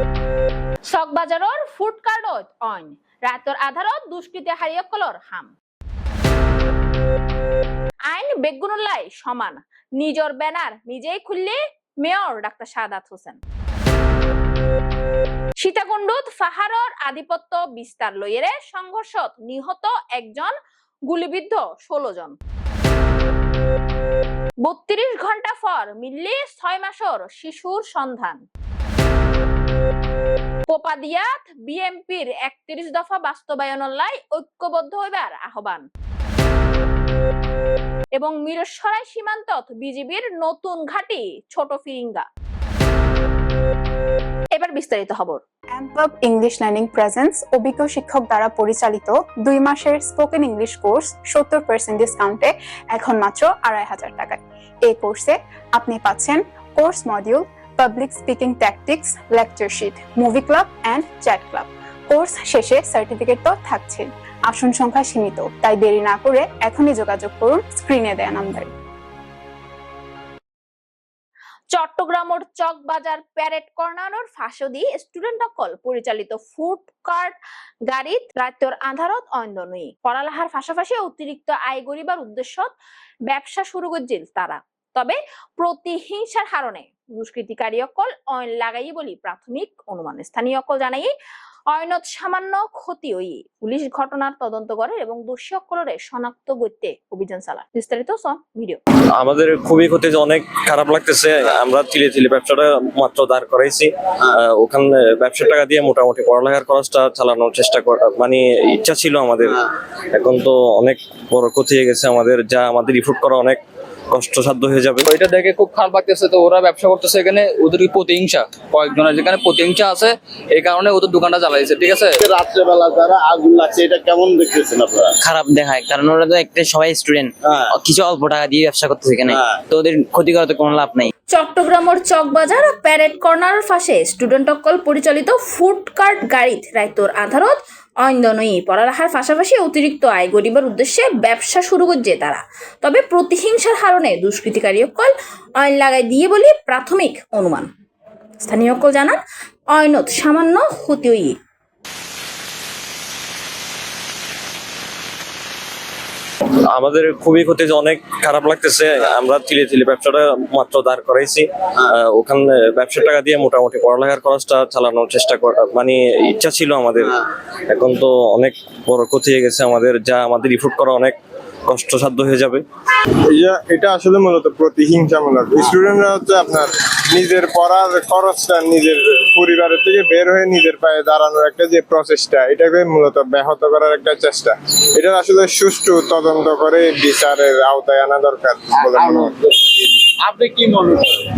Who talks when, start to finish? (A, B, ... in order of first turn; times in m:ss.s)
0:00.9-0:05.5 A
0:08.1-0:13.4 A
0:15.6-0:20.5 A
0:21.1-0:22.3 A
0:24.6-0:28.4 A
0:30.7-0:35.8 A
0:38.2-0:42.2 A
0:44.5-0:45.4 A
0:45.7-1:08.7 B
1:11.7-1:17.4 A
1:17.9-1:22.7 A
1:23.3-1:31.1 A
1:31.7-1:38.8 A
1:39.2-1:53.6 C
1:54.1-1:55.0 C
1:55.0-2:02.2 D
2:02.2-2:05.1 E
2:05.2-2:11.1 F
2:07.4-2:07.7 E
2:11.3-2:27.7 A
2:28.4-2:29.2 A
2:29.7-2:31.3 A
2:36.7-2:51.2 C
2:51.7-2:52.6 C
2:53.3-3:09.4 G
3:08.8-3:11.0 E